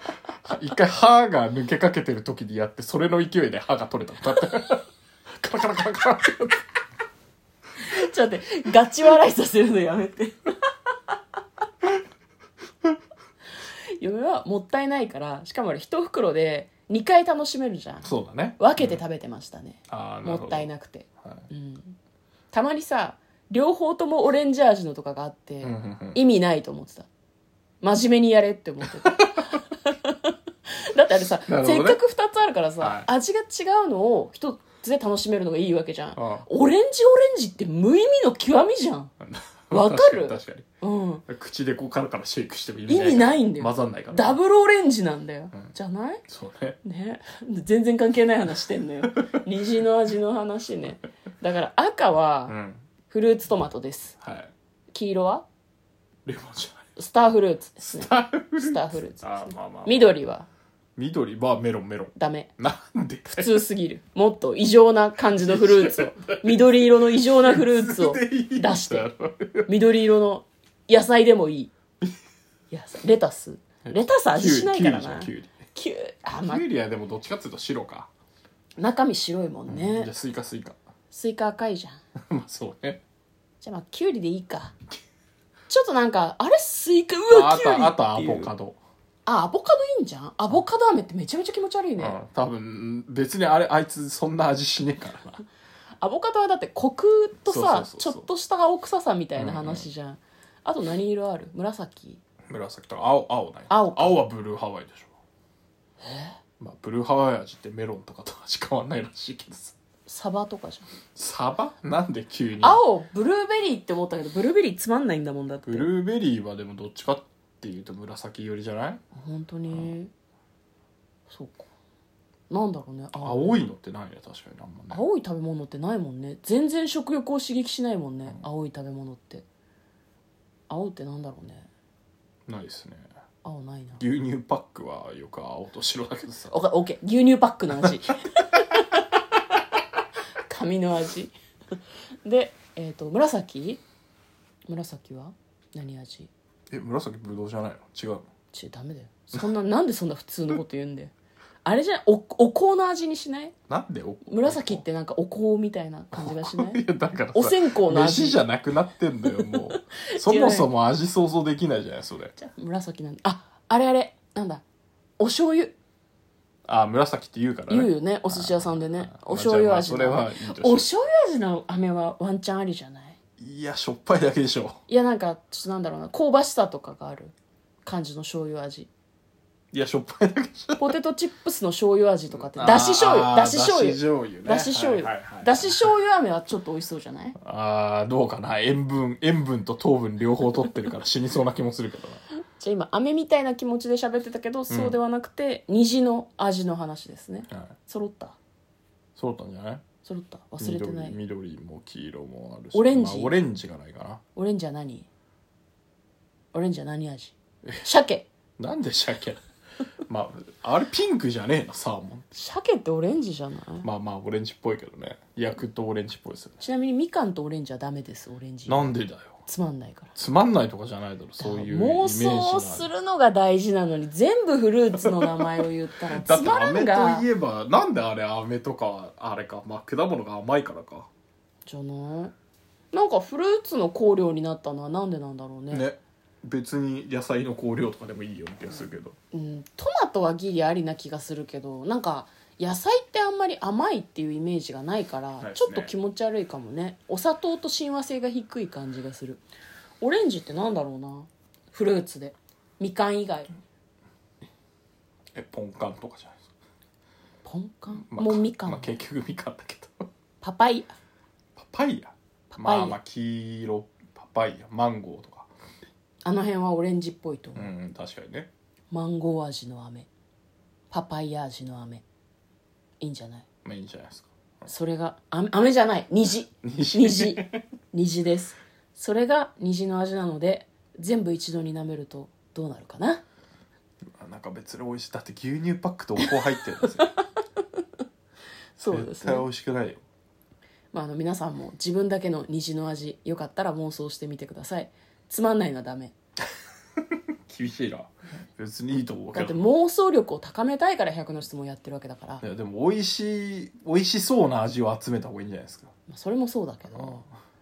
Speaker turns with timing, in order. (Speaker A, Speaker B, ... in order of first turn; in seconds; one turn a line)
Speaker A: 0.4-4.8
Speaker A: 5.4-6.6
Speaker B: 7.8-10.7
Speaker B: 14.0-21.9
Speaker A: 18.0-19.0
Speaker A: 19.9-20.7
Speaker B: 22.5-27.1
Speaker A: 25.6-26.2
Speaker B: 27.8-39.1
Speaker A: 29.0-29.5
Speaker A: 31.5-32.0
Speaker A: 32.8-33.1
Speaker A: 36.1-36.5
Speaker A: 39.2-40.7
Speaker B: 39.7-41.2
Speaker A: 41.3-44.4
Speaker B: 42.9-46.2
Speaker A: 46.3-46.8
Speaker B: 46.8-52.6
Speaker A: 52.5-52.8
Speaker B: 53.1-54.2
Speaker A: 54.2-54.5
Speaker B: 54.9-55.4
Speaker A: 56.2-56.9
Speaker B: 57.0-60.5
Speaker A: 57.8-60.1
Speaker A: 61.0-63.6
Speaker B: 62.1-62.5
Speaker B: 63.3-69.1
Speaker A: 65.3-69.7
Speaker B: 69.7-71.7
Speaker B: 72.7-76.6
Speaker A: 73.8-75.5
Speaker A: 76.3-78.1
Speaker B: 78.8-80.1
Speaker A: 79.7-80.8
Speaker B: 81.1-82.0
Speaker A: 82.2-83.0
Speaker B: 83.6-84.7
Speaker B: 85.7-88.5
Speaker A: 87.3-88.8
Speaker B: 89.2-92.2
Speaker A: 92.0-95.4
Speaker B: 96.0-102.2
Speaker A: 97.5-98.2
Speaker A: 99.4-99.8
Speaker A: 102.5-105.1
Speaker B: 103.7-104.2
Speaker B: 106.0-106.3
Speaker A: 106.6-109.8
Speaker B: 110.0-110.9
Speaker A: 111.1-112.8
Speaker B: 112.6-115.9
Speaker A: 115.7-119.0
Speaker B: 119.1-120.1
Speaker B: 121.3-121.7
Speaker B: 122.5-123.6
Speaker A: 123.2-125.0
Speaker B: 124.9-129.4
Speaker B: 130.7-131.7
Speaker A: 132.5-133.1
Speaker B: 133.4-134.0
Speaker A: 134.0-136.5
Speaker B: 136.5-139.6
Speaker A: 138.1-138.4
Speaker B: 140.5-141.3
Speaker B: 142.2-143.8
Speaker B: 144.7-146.3
Speaker A: 146.7-148.3
Speaker B: 148.5-151.1
Speaker B: 151.6-153.5
Speaker A: 153.7-154.8
Speaker B: 154.2-156.8
Speaker A: 156.1-162.3
Speaker B: 157.3-158.4
Speaker B: 160.0-160.7
Speaker B: 162.4-164.6
Speaker B: 165.2-165.7
Speaker A: 166.7-170.9
Speaker B: 167.7-173.2
Speaker A: 173.4-174.8
Speaker B: 174.9-177.3
Speaker B: 177.8-178.9
Speaker A: 179.7-180.9
Speaker B: 180.8-187.4
Speaker A: 182.5-185.8
Speaker A: 187.4-192.2
Speaker B: 192.6-198.4
Speaker A: 194.7-195.0
Speaker A: 199.2-199.8
Speaker B: 200.0-201.2
Speaker A: 200.6-204.2
Speaker B: 202.7-203.4
Speaker B: 204.3-205.1
Speaker B: 206.5-208.3
Speaker A: 208.6-209.4
Speaker A: 210.1-212.2
Speaker B: 212.3-213.9
Speaker A: 213.8-216.6
Speaker B: 216.6-220.1
Speaker A: 218.7-219.4
Speaker A: 220.2-222.9
Speaker B: 221.4-227.2
Speaker A: 225.0-225.5
Speaker A: 226.1-231.1
Speaker B: 231.7-232.3
Speaker B: 232.9-235.8
Speaker A: 235.7-239.2
Speaker B: 239.3-249.4
Speaker A: 245.4-245.9
Speaker B: 250.0-253.5
Speaker A: 255.3-256.4
Speaker B: 257.4-259.0
Speaker A: 258.1-260.1
Speaker B: 260.4-260.9
Speaker A: 261.6-265.5
Speaker B: 262.5-263.0
Speaker B: 266.2-267.7
Speaker A: 267.5-268.5
Speaker B: 268.9-270.1
Speaker B: 270.9-272.0
Speaker B: 273.0-273.4
Speaker A: 273.6-274.7
Speaker B: 274.7-283.2
Speaker A: 276.6-277.6
Speaker A: 284.1-287.1
Speaker B: 288.8-289.5
Speaker A: 288.9-290.0
Speaker B: 290.9-296.1
Speaker A: 297.1-299.7
Speaker B: 299.3-302.4
Speaker A: 302.4-305.9
Speaker B: 306.1-307.2
Speaker A: 306.9-307.2